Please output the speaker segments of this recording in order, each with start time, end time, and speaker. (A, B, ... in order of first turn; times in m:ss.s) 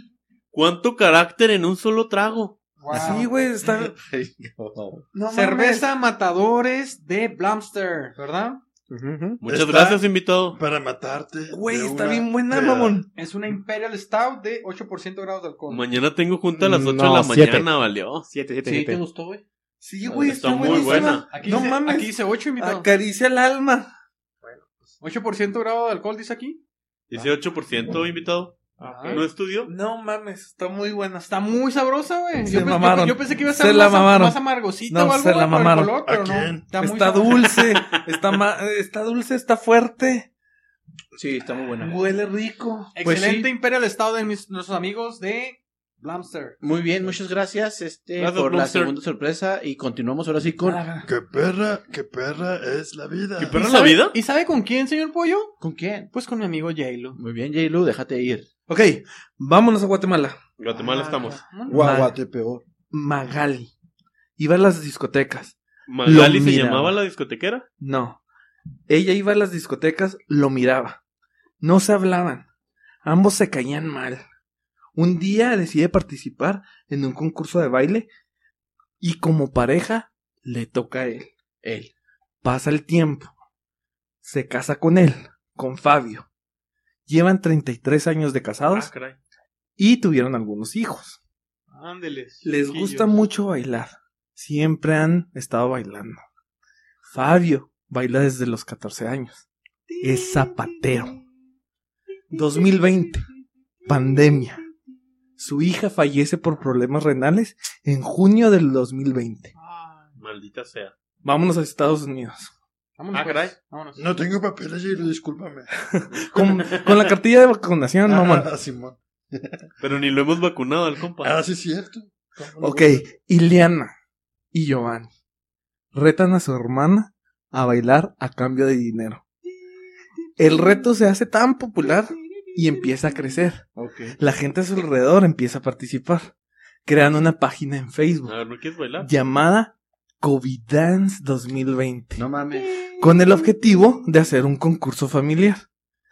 0:00.5-0:02.6 A
0:02.8-0:03.3 B
0:02.9-0:03.9 C
0:03.6-0:05.0 D
0:05.1-0:05.9 C
0:05.3-0:08.6 B
0:08.9-0:09.4 E
0:09.4-0:10.6 A
0:09.4-0:13.0 F
0:11.5-0:13.1 C
0:13.1-0:15.8 B
0:15.7-0:18.3 A
0:16.5-0:19.0 E
0:18.6-0:19.4 D
0:19.8-0:23.9 C
0:20.0-0:21.2 D
0:20.2-0:21.3 A
0:21.3-0:22.9 B
0:25.0-0:26.6 B
0:27.1-0:29.7 A
0:28.8-0:31.3 C
0:28.8-0:29.2 B
0:31.3-0:37.6 B
0:32.4-0:36.0 C
0:36.0-0:36.8 F
0:36.7-0:40.3 C
0:41.1-0:42.0 D
0:41.8-0:42.9 C
0:42.9-0:46.6 B
0:43.0-0:43.5 D
0:46.6-0:50.9 D
0:48.2-0:48.9 A
0:50.6-0:51.1 C
0:51.0-0:53.6 F
0:53.4-0:54.2 A
0:53.5-0:55.5 B
0:55.6-0:56.1 D
0:56.1-0:57.2 B
0:57.2-0:58.5 D
0:58.7-1:00.4 C
1:00.6-1:01.4 A
1:00.8-1:01.8 B
1:01.7-1:02.6 F
1:01.7-1:02.1 C
1:02.9-1:03.7 C
1:04.4-1:07.0 C
1:05.9-1:07.6 A
1:07.8-1:08.2 C
1:08.9-1:11.0 C
1:11.6-1:12.4 C
1:13.0-1:14.2 C
1:15.0-1:18.1 C
1:19.0-1:21.3 C
1:21.6-1:21.9 D
1:22.4-1:23.3 C
1:24.2-1:26.3 C
1:27.1-1:28.9 C
1:28.7-1:29.2 A
1:29.8-1:31.2 C
1:31.7-1:33.1 B
1:32.4-1:36.2 C
1:37.0-1:39.4 C
1:39.9-1:41.1 B
1:40.0-1:41.2 C
1:42.3-1:43.2 C
1:42.3-1:42.6 B
1:43.8-1:44.6 C
1:45.4-1:49.5 C
1:49.5-1:50.1 B
1:50.2-1:50.9 A
1:51.2-1:52.5 C
1:53.0-1:54.0 B
1:53.1-1:53.5 A
1:54.0-1:55.7 F
1:55.7-1:58.5 C
1:56.4-1:57.0 A
1:58.0-1:59.7 F
1:59.8-2:01.4 A
2:01.2-2:03.1 F
2:02.6-2:03.9 C
2:04.5-2:05.1 C
2:05.9-2:09.2 C
2:10.4-2:13.6 C
2:10.4-2:10.8 B
2:13.8-2:14.2 D
2:14.2-2:16.3 C
2:16.8-2:18.4 C
2:18.2-2:19.1 A
2:19.0-2:22.2 C
2:22.2-2:22.8 D
2:23.0-2:25.6 C